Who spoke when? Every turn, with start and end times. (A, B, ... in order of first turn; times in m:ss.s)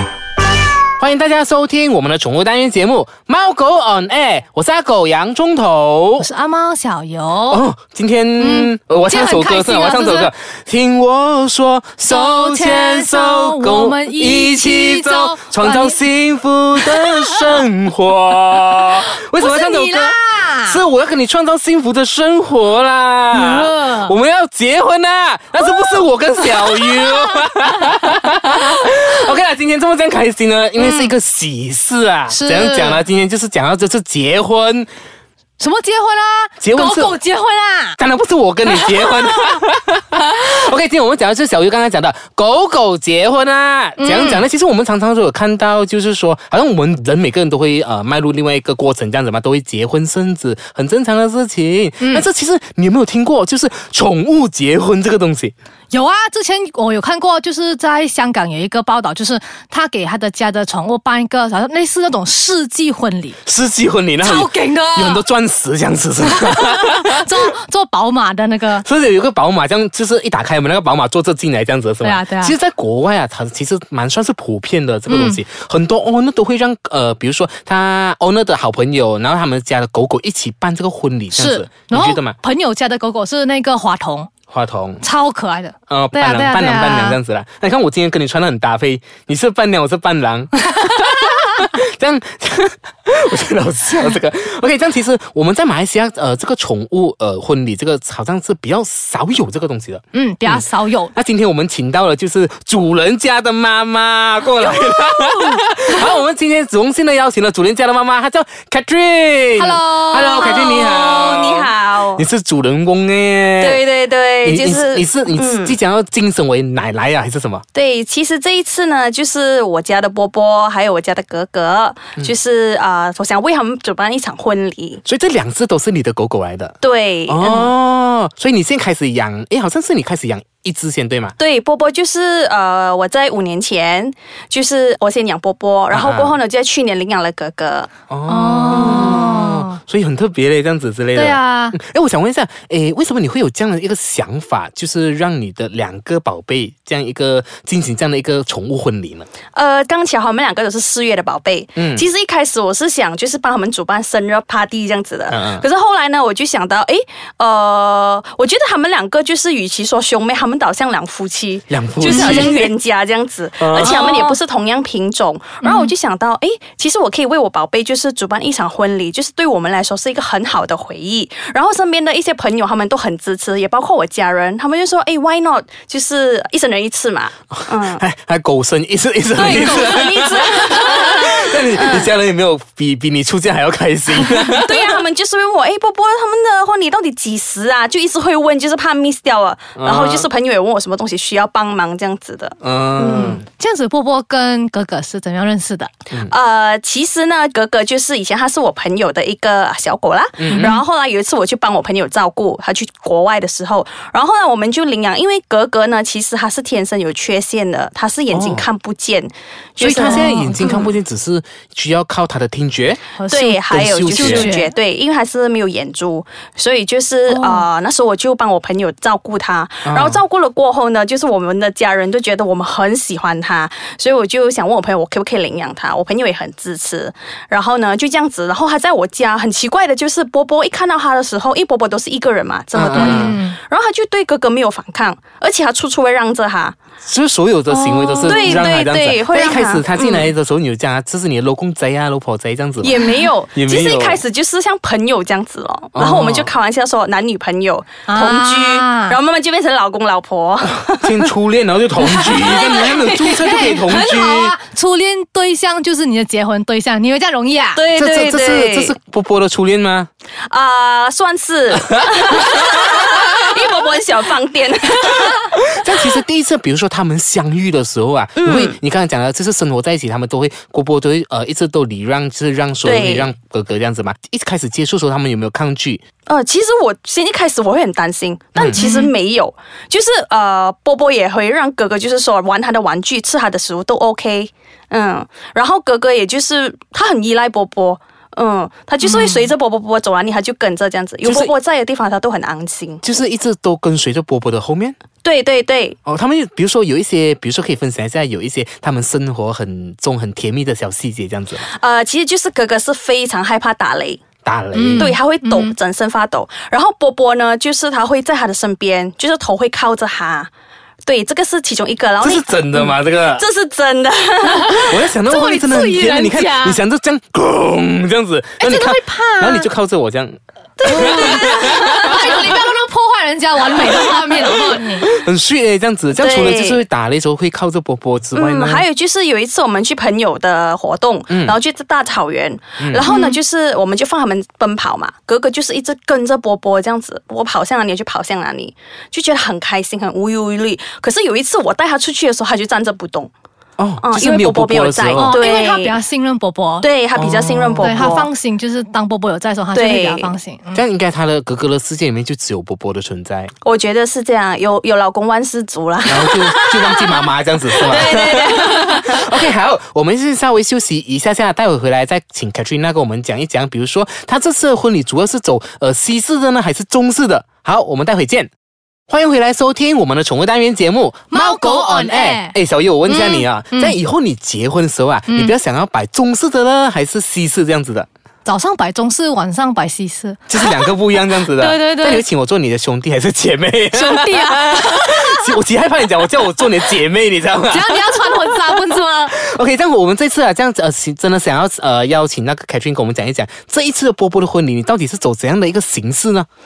0:01.0-0:06.3 A
0:06.2-0:07.6 B
0:07.5-0:34.9 A
0:08.4-0:10.3 B
0:12.1-0:16.0 B
0:16.8-0:17.6 B
0:19.3-0:20.8 B
0:23.3-0:24.1 B
0:25.7-0:27.5 B
0:30.8-0:31.1 B
0:32.3-0:33.0 B
0:35.6-0:38.0 B
0:36.6-0:37.2 A
0:38.0-0:55.5 A
0:38.7-0:39.4 B
0:44.0-0:44.4 B
0:55.9-1:03.4 B
1:03.5-1:07.3 A
1:04.2-1:05.2 B
1:06.2-1:08.8 B
1:08.8-1:22.4 A
1:12.0-1:12.5 B
1:15.1-1:15.4 B
1:21.4-1:24.3 B
1:24.5-1:25.0 A
1:25.0-1:27.2 B
1:25.9-1:53.8 A
1:40.1-1:41.1 B
1:49.6-1:50.7 B
1:50.3-1:52.2 C
1:53.6-1:55.8 C
1:54.4-1:57.6 A
1:57.7-2:05.0 C
2:05.0-2:11.4 A
2:06.8-2:07.7 C
2:11.4-2:17.9 C
2:15.9-2:16.4 A
2:18.1-2:29.3 A
2:18.3-2:19.8 B
2:18.8-2:19.2 C
2:21.2-2:21.8 B
2:29.5-2:58.0 C
2:31.8-2:32.0 A
2:35.3-2:35.6 A
2:41.7-2:42.7 A
2:42.0-2:42.6 B
2:43.6-2:44.1 A
2:43.8-2:44.4 B
2:45.6-2:45.9 B
2:57.6-3:05.0 A
2:59.4-3:02.1 C
3:04.6-3:13.4 C
3:09.8-3:10.3 A
3:12.6-3:13.4 A
3:13.1-3:15.9 B
3:16.2-3:30.4 C
3:20.4-3:20.8 A
3:20.5-3:20.8 B
3:28.3-3:28.7 A
3:29.8-3:33.1 A
3:29.8-3:30.9 B
3:33.2-3:34.7 B
3:33.3-3:56.8 C
3:33.7-3:34.5 A
3:37.3-3:37.7 B
3:39.8-3:40.2 A
3:52.8-3:53.4 A
3:52.9-3:53.6 B
3:57.0-4:02.9 A
3:57.7-3:58.6 B
3:58.3-4:00.3 C
4:02.8-4:11.3 C
4:03.5-4:04.2 A
4:06.0-4:06.5 A
4:08.1-4:09.2 B
4:11.0-4:14.6 A
4:12.2-4:17.8 B
4:17.8-4:18.9 C
4:18.0-4:20.1 A
4:20.5-4:25.5 C
4:25.3-4:36.0 A
4:28.4-4:28.8 C
4:32.8-4:33.3 C
4:36.3-4:53.0 C
4:38.6-4:38.8 A
4:38.8-4:39.1 B
4:49.0-4:49.5 B
4:51.2-4:51.5 A
4:53.0-4:55.0 A
4:55.2-4:56.0 C
4:56.1-5:01.7 A
5:01.6-5:04.2 C
5:04.4-5:05.1 A
5:04.7-5:05.8 B
5:05.0-5:10.5 C
5:11.0-5:15.0 C
5:12.2-5:13.4 A
5:14.6-5:16.8 B
5:14.9-5:22.2 A
5:18.6-5:19.7 B
5:20.8-5:22.4 C
5:20.8-5:25.1 B
5:25.0-5:28.8 A
5:26.2-5:26.8 C
5:28.3-5:43.3 C
5:31.3-5:31.6 A
5:32.8-5:33.1 A
5:33.0-5:33.4 B
5:43.8-5:45.4 A
5:44.0-5:46.0 C
5:45.2-5:46.9 B
5:46.8-5:48.3 C
5:47.2-5:48.2 A
5:47.8-5:50.8 B
5:49.7-5:50.4 C
5:50.7-5:53.5 A
5:53.6-5:57.1 C
5:56.0-6:08.5 A
5:57.8-5:59.1 C
6:09.1-6:18.1 A
6:11.3-6:14.0 B
6:15.3-6:15.6 B
6:18.4-6:22.2 B
6:20.5-6:36.5 A
6:23.9-6:25.6 B
6:27.7-6:29.4 B